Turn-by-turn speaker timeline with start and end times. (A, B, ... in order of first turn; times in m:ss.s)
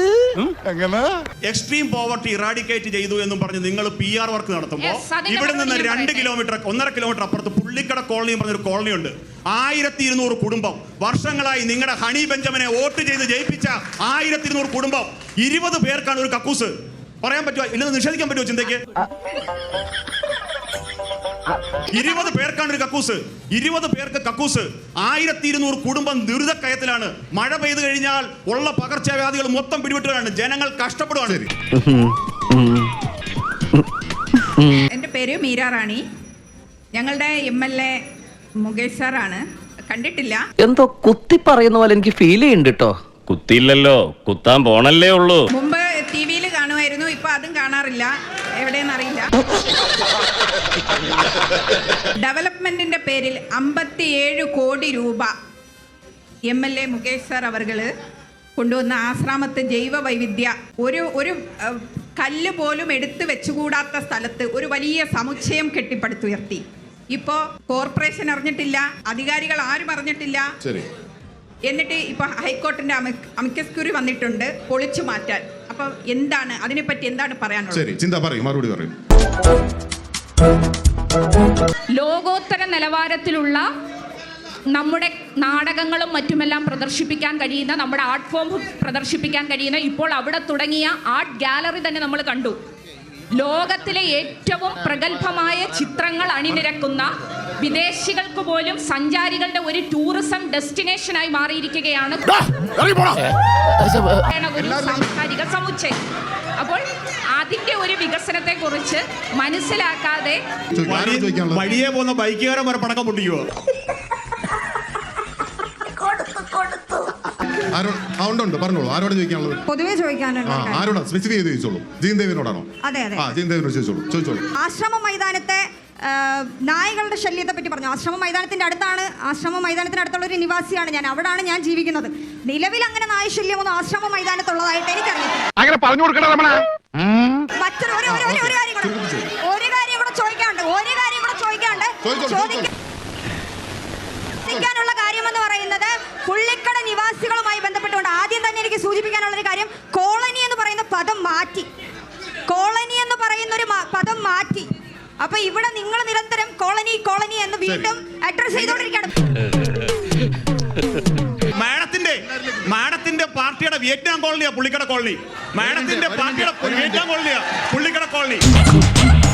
0:01.4-0:16.7 A
0:04.8-0:06.3 B
0:17.2-0:18.8 A
0:21.9-0:31.4 A
0:35.0-0:36.0 C
0:37.0-0:37.9 C
0:38.6-0:40.4 C
0:40.6-0:42.9 D
0:43.3-0:45.4 E
0:45.5-0:49.3 C
0:52.2-0:55.3 C
0:56.5-0:57.9 C
0:58.6-1:10.4 C
1:10.6-1:10.9 F
1:11.7-1:17.8 C
1:17.7-1:18.9 F
1:21.9-1:23.6 B
1:24.7-1:32.6 B
1:33.4-1:42.2 B
1:44.3-1:46.0 B
1:44.6-1:45.1 F
1:46.6-1:46.8 B
1:47.4-1:50.4 B
1:50.7-1:51.7 F
1:50.9-1:53.5 A
1:57.7-1:59.6 F
1:59.7-2:00.9 G
2:00.4-2:04.4 F
2:02.8-2:03.2 G
2:04.6-2:15.4 G
2:17.6-2:22.7 G
2:18.0-2:19.3 F
2:22.0-2:22.7 F
2:24.4-2:31.7 G
2:32.5-2:34.7 G
2:35.2-2:39.1 G
2:37.6-2:37.9 F
2:41.6-2:48.4 A
2:42.4-2:42.6 F
2:45.6-2:47.0 F